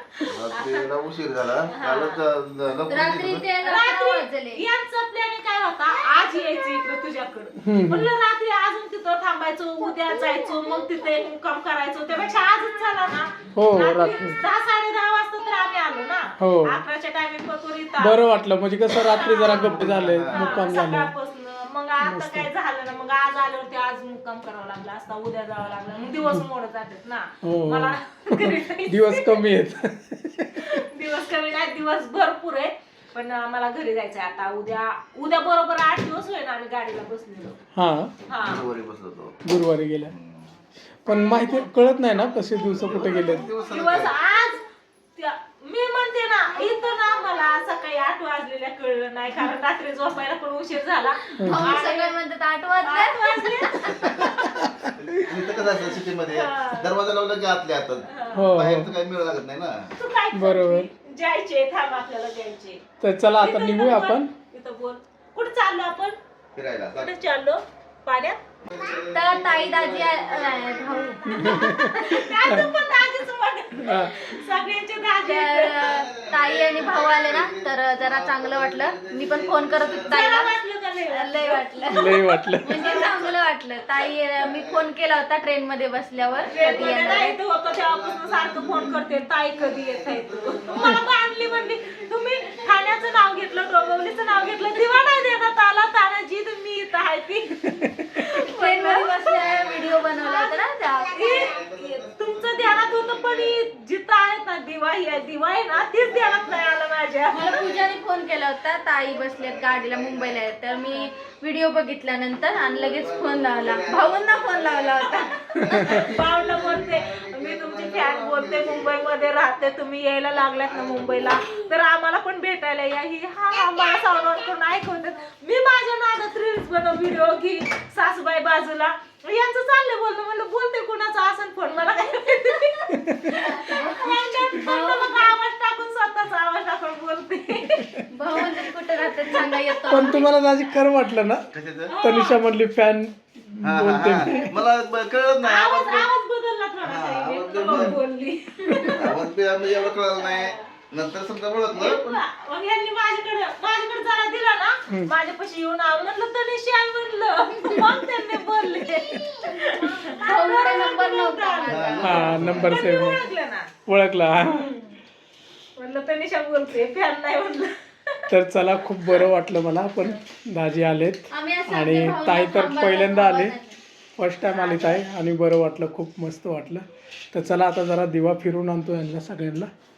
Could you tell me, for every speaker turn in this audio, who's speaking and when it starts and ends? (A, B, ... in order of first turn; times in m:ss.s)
0:00.1-0:00.9 A
0:00.3-0:03.4 B
0:01.7-0:02.2 A
0:02.9-0:04.6 C
0:03.6-0:18.2 A
0:07.6-0:08.1 D
0:13.6-0:14.4 D
0:16.4-0:16.8 D
0:18.0-0:21.1 D
0:19.0-0:29.5 A
0:19.5-0:20.6 B
0:22.0-0:22.5 D
0:27.4-0:30.6 D
0:30.6-0:37.6 A
0:37.8-0:38.1 D
0:38.3-0:38.7 A
0:38.3-0:39.4 B
0:39.4-0:40.1 D
0:40.1-0:40.5 B
0:41.0-0:43.5 D
0:42.6-0:44.1 B
0:43.6-0:44.6 A
0:45.2-0:52.1 A
0:51.4-0:51.8 D
0:51.4-0:54.1 C
0:52.8-0:54.7 A
0:53.9-0:54.4 B
0:54.6-0:54.8 D
0:54.9-0:59.9 B
0:55.5-0:57.0 A
0:58.1-0:58.5 A
0:58.3-0:58.9 D
1:00.0-1:02.8 A
1:00.3-1:00.9 D
1:03.0-1:04.3 D
1:03.4-1:06.2 A
1:06.5-1:07.1 B
1:07.0-1:08.4 A
1:08.6-1:11.4 B
1:09.1-1:11.9 C
1:11.3-1:12.7 D
1:11.7-1:15.8 A
1:13.8-1:14.3 D
1:15.2-1:20.5 C
1:15.8-1:20.2 B
1:20.1-1:23.1 A
1:21.1-1:27.4 C
1:21.9-1:22.8 D
1:22.7-1:23.4 B
1:24.0-1:24.9 B
1:26.4-1:35.5 B
1:26.5-1:39.2 A
1:37.7-1:38.2 D
1:38.5-1:41.4 C
1:39.2-1:40.4 B
1:41.1-1:47.4 A
1:41.4-1:43.6 B
1:45.7-1:46.8 B
1:47.3-1:55.6 C
1:47.4-1:48.0 B
1:49.1-1:50.7 B
1:52.7-1:59.1 B
1:55.0-2:20.3 A
2:00.6-2:01.4 B
2:12.9-2:13.3 D
2:13.3-2:15.3 C
2:18.1-2:20.2 C
2:19.9-2:21.5 D
2:21.5-2:21.9 B
2:21.9-2:22.4 A
2:22.0-2:24.5 D
2:23.6-2:26.1 B
2:25.4-2:30.6 A
2:26.8-2:28.0 B
2:28.7-2:29.0 C
2:28.9-2:32.2 B
2:31.7-2:43.7 A
2:37.6-2:38.0 D
2:40.1-2:42.1 C
2:41.7-2:42.8 B
2:42.0-2:43.3 D
2:43.9-2:44.6 D
2:44.4-2:45.0 A
2:45.8-2:48.2 A
2:48.3-2:53.6 D
2:51.3-2:53.8 C
2:54.2-2:59.7 D
2:54.5-2:55.0 A